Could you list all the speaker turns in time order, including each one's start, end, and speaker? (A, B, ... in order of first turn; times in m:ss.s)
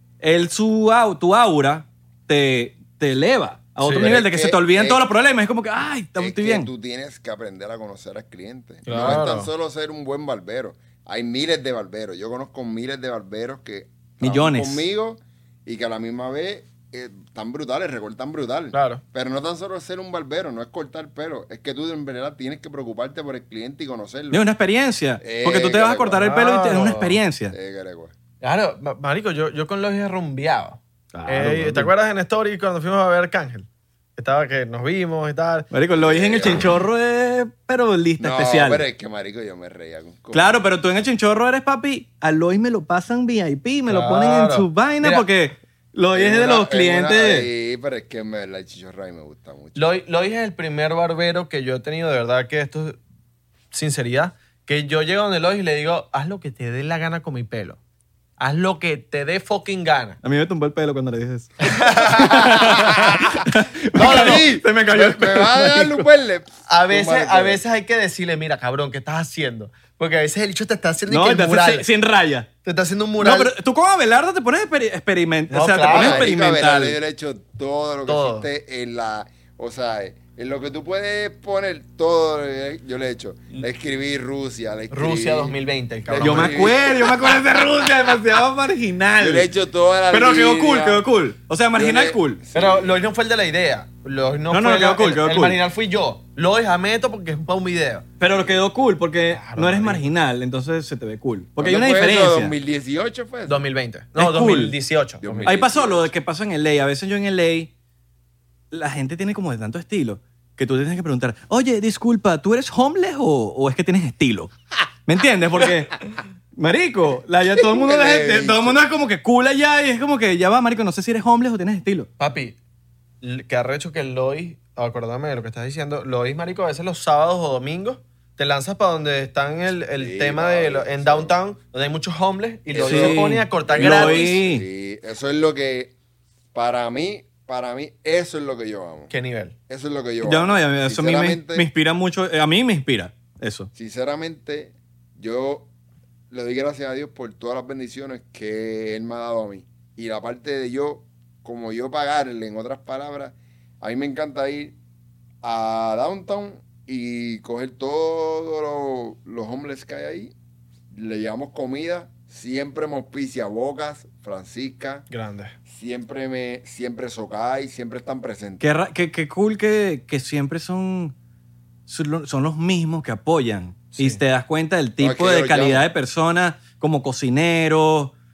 0:00.2-0:06.7 A
0:03.8-0:04.1 B
0:03.9-0:05.0 C
0:06.2-0:24.4 C
0:08.8-0:09.5 B
0:14.2-0:14.8 A
0:18.7-0:19.0 B
0:24.3-0:27.5 A
0:25.2-0:26.3 C
0:26.1-0:27.2 B
0:27.5-0:28.1 C
0:28.4-0:35.7 B
0:31.1-0:31.9 A
0:35.7-0:38.8 A
0:36.0-0:36.7 C
0:38.2-0:40.6 C
0:40.3-0:47.5 A
0:43.9-0:45.2 B
0:46.1-0:49.9 C
0:49.8-0:53.0 B
0:53.7-0:57.8 B
0:58.4-1:00.2 B
1:00.2-1:06.1 A
1:01.6-1:02.7 B
1:02.3-1:03.2 C
1:03.9-1:04.4 B
1:03.9-1:07.6 C
1:06.7-1:11.8 B
1:11.1-1:12.5 A
1:12.6-1:13.5 B
1:13.2-1:17.0 A
1:15.5-1:16.3 B
1:15.9-1:27.3 C
1:18.1-1:18.5 B
1:24.9-1:26.7 B
1:26.2-1:29.5 A
1:29.2-1:31.0 C
1:30.1-1:32.4 A
1:31.7-1:33.0 C
1:32.5-1:38.1 B
1:34.5-1:35.6 A
1:38.2-1:42.5 A
1:39.3-1:40.0 B
1:41.6-1:43.6 C
1:43.5-1:45.6 B
1:44.2-1:44.8 A
1:45.2-1:46.1 C
1:45.4-1:47.7 A
1:48.7-1:54.5 A
1:55.0-1:56.0 A
1:56.6-2:02.1 A
1:57.6-1:58.8 C
2:02.2-2:02.6 B
2:03.2-2:14.3 B
2:09.9-2:11.4 C
2:12.7-2:15.9 C
2:12.8-2:14.6 A
2:16.5-2:19.1 C
2:19.1-2:19.5 B
2:19.7-2:21.7 C
2:20.2-2:23.7 A
2:23.7-2:25.7 C
2:26.3-2:34.7 C
2:35.4-2:40.3 C
2:40.9-2:45.0 C
2:45.1-2:45.5 B
2:45.7-2:48.6 C
2:48.6-2:51.1 A
2:51.9-2:58.1 A
2:53.9-2:54.2 B
2:55.0-2:55.8 C